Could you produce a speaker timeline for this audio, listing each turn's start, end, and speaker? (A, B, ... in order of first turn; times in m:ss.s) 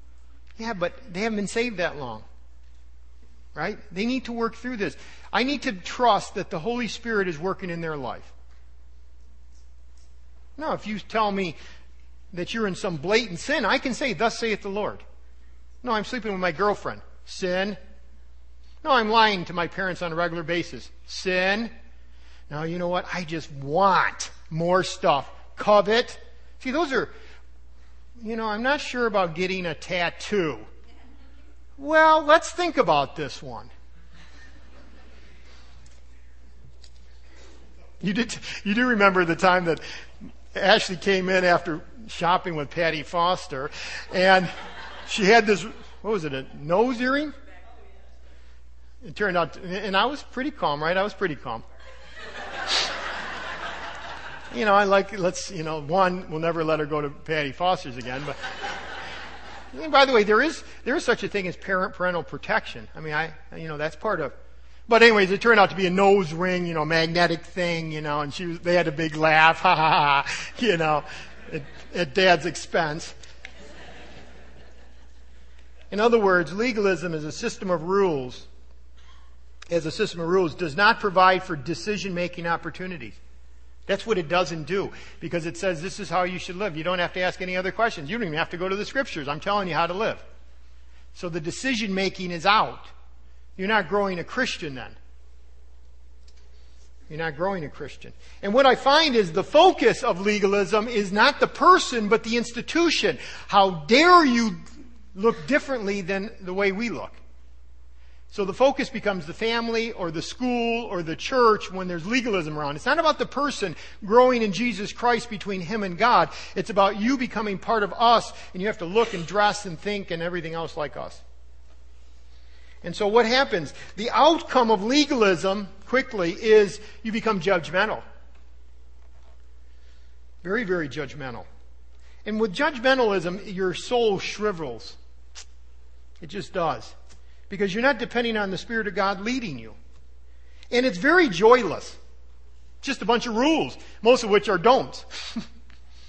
0:00.6-0:02.2 A
0:03.5-0:08.3 A
0:10.6-0:11.6 A
0:12.3-0:15.0 A
0:15.8-0:17.8 A
0:18.8-0:21.7 A
0:22.5-0:27.1 A
0:28.2-0:30.7 A
0:31.8-0:33.7 A
0:38.0-0:39.8 A
0:40.5-0:44.5 A
0:45.0-0:47.3 A
0:49.0-0:51.6 A
0:54.5-0:58.5 A
0:59.7-1:04.3 A
1:04.9-1:13.1 A
1:15.9-1:18.5 A
1:19.7-1:23.2 A
1:23.9-1:30.2 A
1:31.1-1:32.9 A
1:33.6-1:35.0 A
1:37.1-1:44.6 A
1:45.1-1:47.2 A
1:48.3-2:01.2 A
2:02.8-2:08.0 A
2:10.4-2:11.4 A
2:12.2-2:15.0 A
2:16.2-2:16.9 A
2:17.5-2:19.8 A
2:20.7-2:22.0 A
2:22.8-2:25.4 A